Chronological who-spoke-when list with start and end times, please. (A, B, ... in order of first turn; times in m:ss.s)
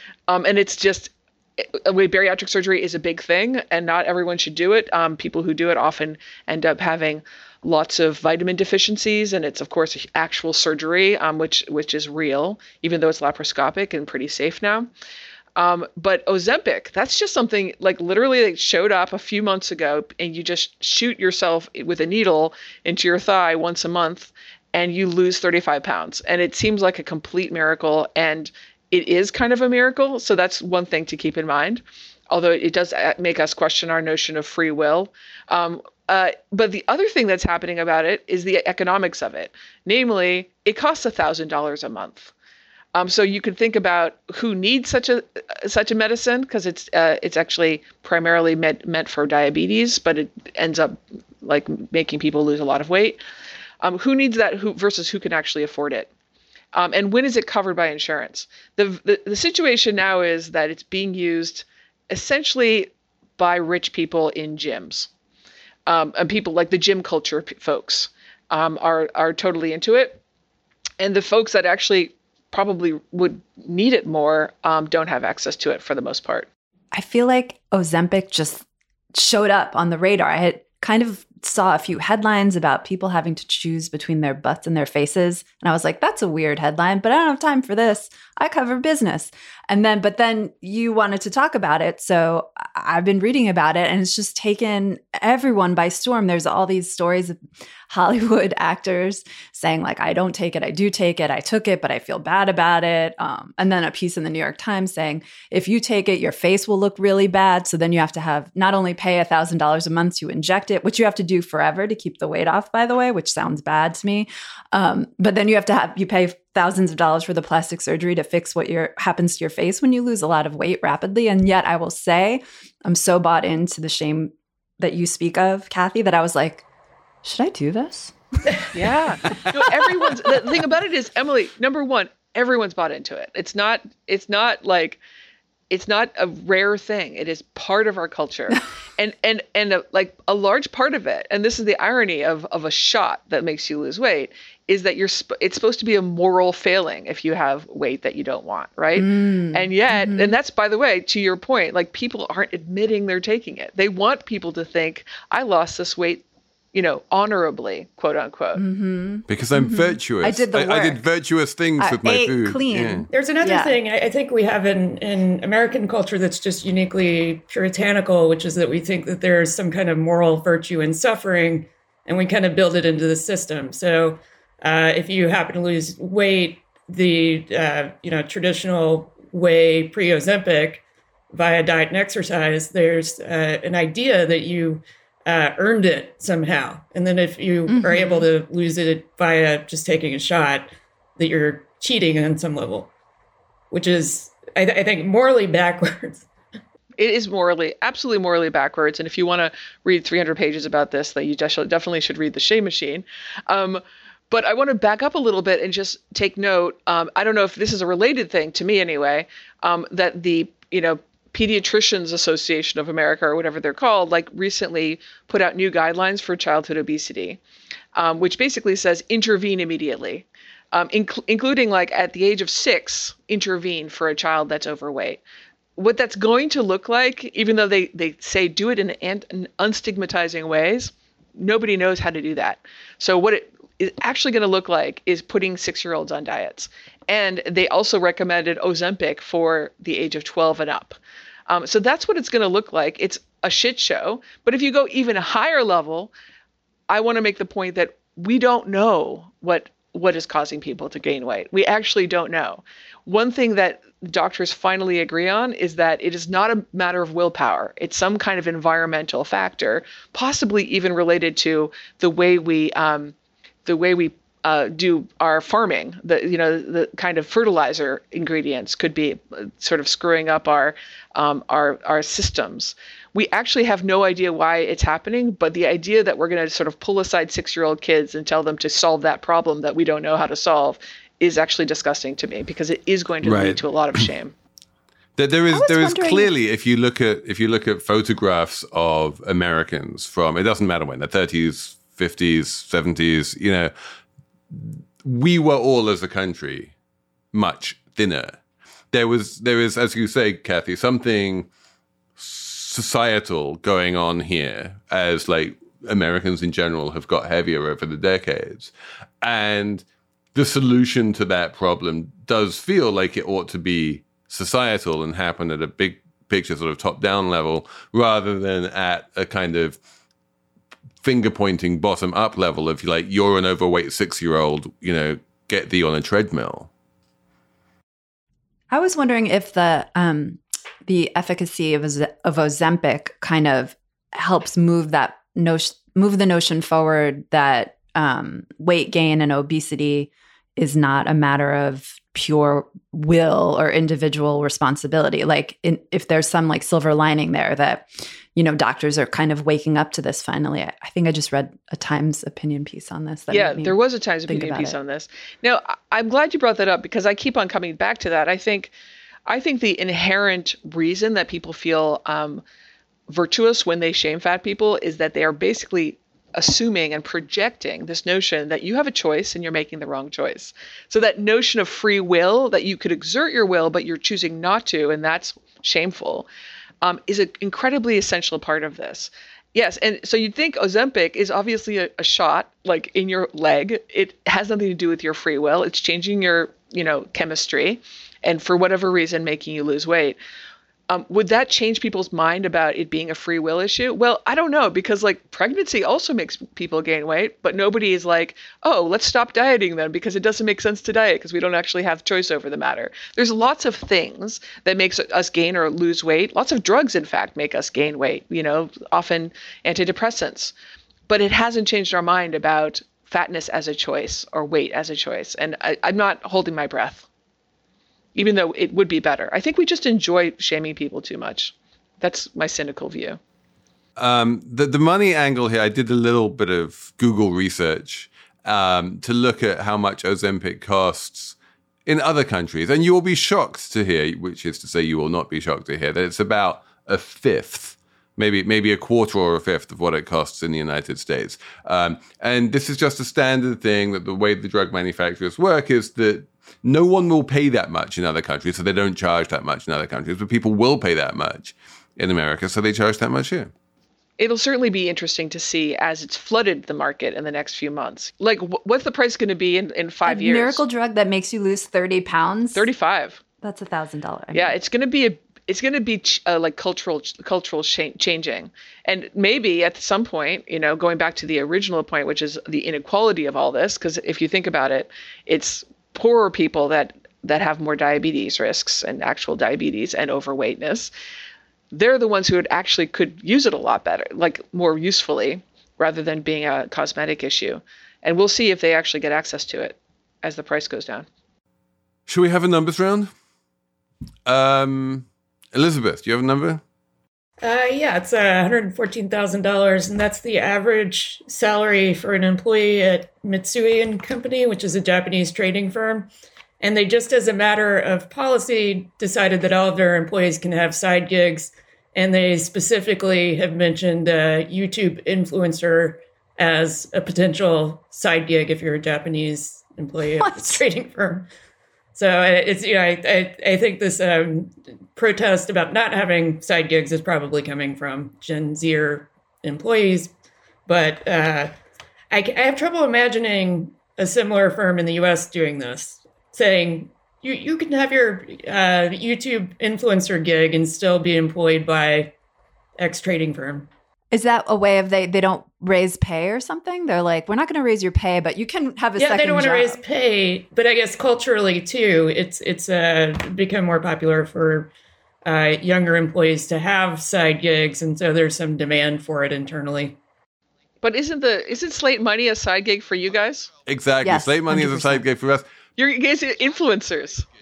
0:00.3-0:14.9 A
0:15.6-0:42.3 A
0:42.9-0:53.2 A
0:53.8-0:56.1 A
0:56.7-1:05.1 A
1:05.9-1:10.2 A
1:11.0-1:16.5 A
1:16.9-1:37.4 B
1:37.9-2:06.6 B
2:07.2-2:08.1 B
2:08.7-2:15.0 A
2:15.7-2:38.6 A
2:29.0-2:30.4 B
2:38.6-2:41.0 B
2:39.3-2:43.1 C
2:41.8-2:43.8 B
2:43.1-3:12.9 D
3:07.7-3:08.3 B
3:13.7-3:16.3 D
3:17.0-3:37.4 A
3:38.0-3:45.2 A
3:45.8-4:01.0 A
4:01.5-4:06.1 A
4:06.9-4:23.1 A
4:23.7-4:44.3 A
4:43.2-4:44.1 C
4:45.2-4:53.7 C
4:45.5-4:46.3 B
4:54.5-4:56.7 C
4:57.3-4:58.4 C
4:58.9-5:01.5 C
5:02.2-5:19.8 C
5:21.0-5:26.7 C
5:28.7-5:53.8 B
5:53.3-5:58.7 A
5:54.3-5:54.8 B
5:59.3-6:02.4 A
6:03.1-6:16.3 A
6:16.8-6:30.2 A
6:30.9-6:50.5 A
6:51.1-6:57.1 A
6:58.1-7:03.2 A
7:04.0-7:33.5 C
7:34.2-7:40.6 A
7:40.1-7:42.7 B
7:42.6-7:43.2 A
7:43.4-7:44.6 B
7:44.3-8:00.9 A
8:01.7-8:11.1 A
8:12.1-8:13.1 C
8:14.3-8:16.6 C
8:17.4-8:26.1 D
8:26.6-8:41.3 D
8:40.2-8:40.6 B
8:42.0-8:50.1 D
8:50.7-8:51.5 D
8:52.1-9:02.1 D
9:02.8-9:03.7 D
9:04.1-9:09.8 B
9:09.0-9:14.7 D
9:15.2-9:20.0 D
9:20.8-9:23.5 A
9:23.7-9:25.4 C
9:24.0-9:25.0 B
9:25.8-9:27.3 A